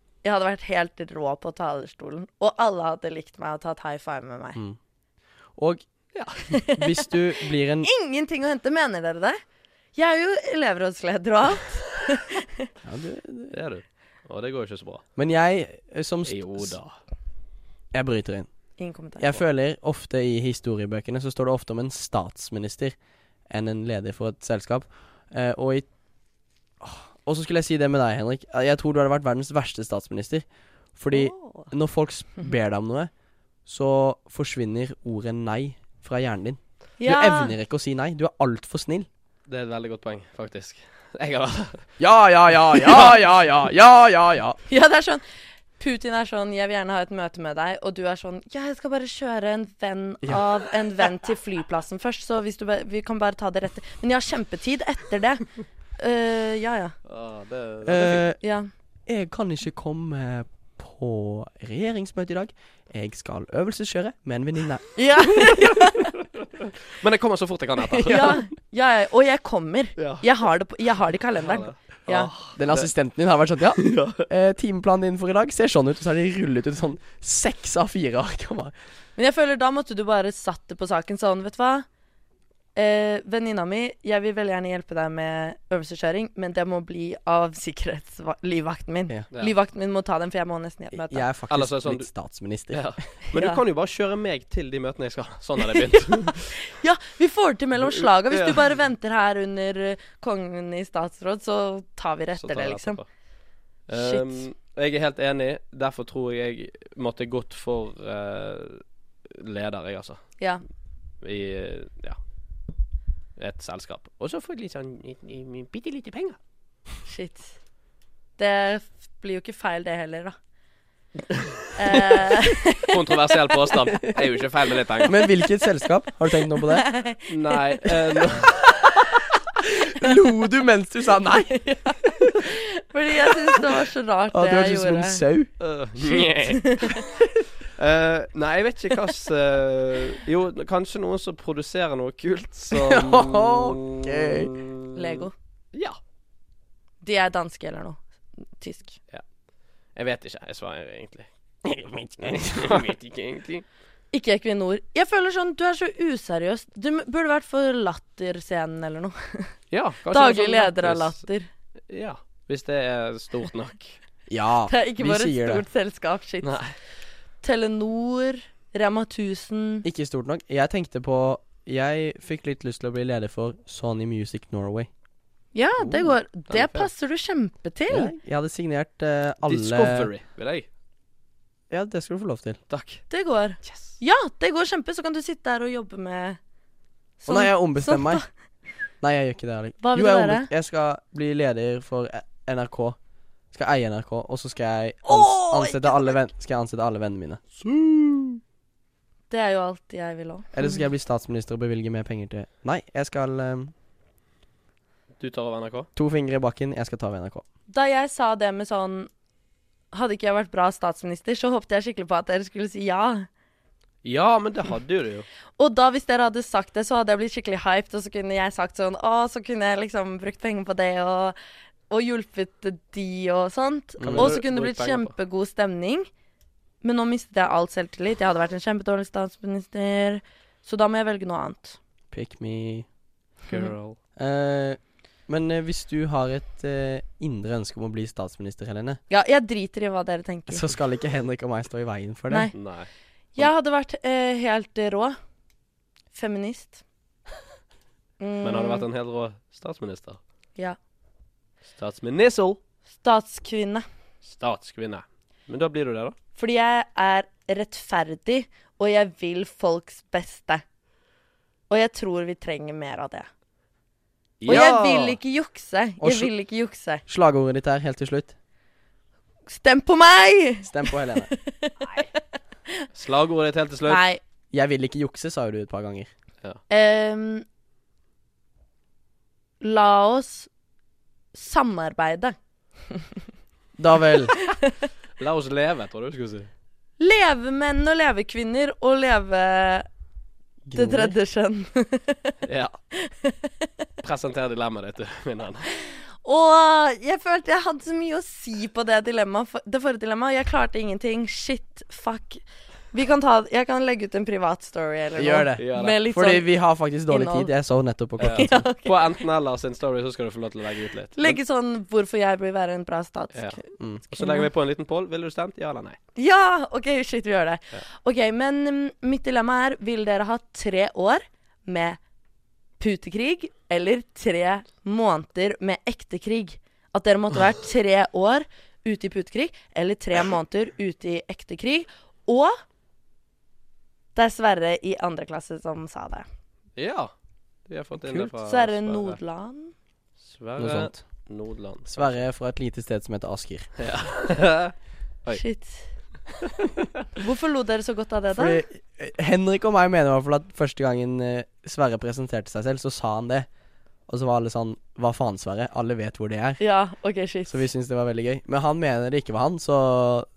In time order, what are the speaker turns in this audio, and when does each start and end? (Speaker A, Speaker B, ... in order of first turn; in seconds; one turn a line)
Speaker A: 0.2-4.6
Speaker B: 5.5-5.8
Speaker C: 6.1-6.5
Speaker A: 6.5-7.1
Speaker B: 6.7-7.9
Speaker A: 7.8-9.4
Speaker A: 9.9-12.7
Speaker B: 12.8-13.5
Speaker C: 13.5-15.0
Speaker B: 15.2-16.7
Speaker C: 16.2-16.9
Speaker B: 17.9-18.5
Speaker A: 18.8-19.3
Speaker B: 19.2-22.9
Speaker B: 23.5-25.9
Speaker B: 26.8-30.4
Speaker B: 31.0-33.1
Speaker A: 31.1-31.7
Speaker B: 33.6-39.1
Speaker A: 37.0-37.5
Speaker C: 39.5-41.8
Speaker B: 42.0-44.6
Speaker A: 44.7-45.2
Speaker A: 45.8-57.0
Speaker C: 57.0-58.2
Speaker B: 57.8-58.4
Speaker A: 58.4-58.7
Speaker B: 59.1-64.9
Speaker A: 65.0-66.1
Speaker C: 66.8-68.4
Speaker A: 67.9-72.3
Speaker C: 70.0-70.2
Speaker C: 71.4-72.9
Speaker B: 72.5-78.7
Speaker C: 73.8-74.2
Speaker A: 79.2-81.8
Speaker A: 82.8-91.2
Speaker B: 90.9-92.8
Speaker C: 91.5-92.1
Speaker C: 92.7-96.5
Speaker A: 93.3-93.6
Speaker A: 95.7-103.0
Speaker C: 97.8-98.6
Speaker C: 102.3-103.1
Speaker C: 103.9-110.2
Speaker A: 103.9-104.4
Speaker C: 111.2-112.2
Speaker C: 113.4-116.4
Speaker A: 117.0-117.5
Speaker A: 118.4-120.3
Speaker C: 121.3-122.0
Speaker A: 121.8-123.0
Speaker C: 122.8-125.2
Speaker B: 125.0-126.9
Speaker A: 126.7-127.2
Speaker C: 127.3-128.6
Speaker B: 129.7-131.6
Speaker A: 131.5-135.2
Speaker B: 134.3-135.5
Speaker C: 135.6-137.1
Speaker A: 136.1-137.0
Speaker C: 137.7-146.0
Speaker B: 142.7-144.5
Speaker A: 144.9-145.3
Speaker A: 147.0-148.0
Speaker A: 148.6-149.0
Speaker C: 149.9-151.3
Speaker B: 151.6-152.9
Speaker C: 152.2-153.6
Speaker A: 154.1-159.5
Speaker C: 159.7-161.2
Speaker A: 160.1-161.5
Speaker C: 161.9-164.0
Speaker B: 164.3-165.6
Speaker A: 164.7-166.6
Speaker C: 166.4-166.7
Speaker A: 167.4-169.8
Speaker B: 169.8-174.9
Speaker A: 175.5-178.1
Speaker B: 175.8-176.1
Speaker C: 176.5-176.9
Speaker B: 177.9-180.1
Speaker C: 179.4-180.7
Speaker B: 181.7-182.6
Speaker C: 182.7-183.0
Speaker A: 183.1-186.4
Speaker C: 183.6-183.9
Speaker A: 187.2-188.2
Speaker B: 187.3-188.2
Speaker B: 189.0-193.0
Speaker A: 189.8-190.5
Speaker B: 193.5-197.4
Speaker A: 195.0-196.2
Speaker C: 197.6-198.4
Speaker A: 199.3-200.7
Speaker B: 200.5-203.7
Speaker C: 205.2-205.9
Speaker B: 205.9-207.4
Speaker A: 207.7-209.1
Speaker A: 209.9-213.3
Speaker C: 214.0-215.2
Speaker A: 215.6-221.3
Speaker A: 221.9-226.1
Speaker B: 224.0-224.3
Speaker C: 224.1-225.1
Speaker A: 226.8-231.8
Speaker B: 232.1-232.8
Speaker C: 233.5-234.0
Speaker B: 234.2-239.0
Speaker A: 239.1-240.7
Speaker B: 240.5-242.5
Speaker C: 242.5-242.9
Speaker A: 243.3-245.2
Speaker A: 246.1-246.8
Speaker A: 248.2-248.9
Speaker C: 248.4-250.2
Speaker C: 251.7-252.6
Speaker A: 253.0-253.8
Speaker C: 254.2-256.1
Speaker A: 256.4-260.6
Speaker A: 261.7-263.3
Speaker C: 264.4-265.2
Speaker A: 264.5-267.0
Speaker B: 266.0-266.3
Speaker B: 267.1-268.3
Speaker A: 269.5-271.8
Speaker B: 270.6-271.3
Speaker C: 271.8-272.1
Speaker C: 272.9-274.0
Speaker A: 273.9-274.2
Speaker B: 274.5-276.1
Speaker A: 276.7-277.4
Speaker A: 279.6-280.5
Speaker A: 281.3-282.3
Speaker B: 283.8-284.3
Speaker A: 284.4-284.7
Speaker C: 285.2-286.5
Speaker A: 287.0-289.9
Speaker B: 290.6-291.1
Speaker A: 290.7-292.3
Speaker C: 292.4-292.7
Speaker A: 293.0-293.7
Speaker C: 294.0-295.7
Speaker A: 296.2-306.5
Speaker B: 305.1-308.6
Speaker C: 305.6-306.0
Speaker A: 307.1-307.5
Speaker C: 308.2-311.4
Speaker A: 308.3-309.2
Speaker A: 311.2-314.5
Speaker C: 314.1-316.0
Speaker A: 316.1-322.0
Speaker A: 322.8-332.6
Speaker A: 334.1-336.2
Speaker C: 336.8-337.1
Speaker C: 337.7-339.2
Speaker A: 338.4-339.7
Speaker C: 340.2-342.2
Speaker B: 340.6-341.0
Speaker B: 341.9-343.7
Speaker C: 343.8-344.7
Speaker A: 345.3-345.9
Speaker A: 347.1-348.6
Speaker B: 348.3-353.5
Speaker B: 354.1-356.6
Speaker A: 356.6-357.6
Speaker B: 357.5-360.3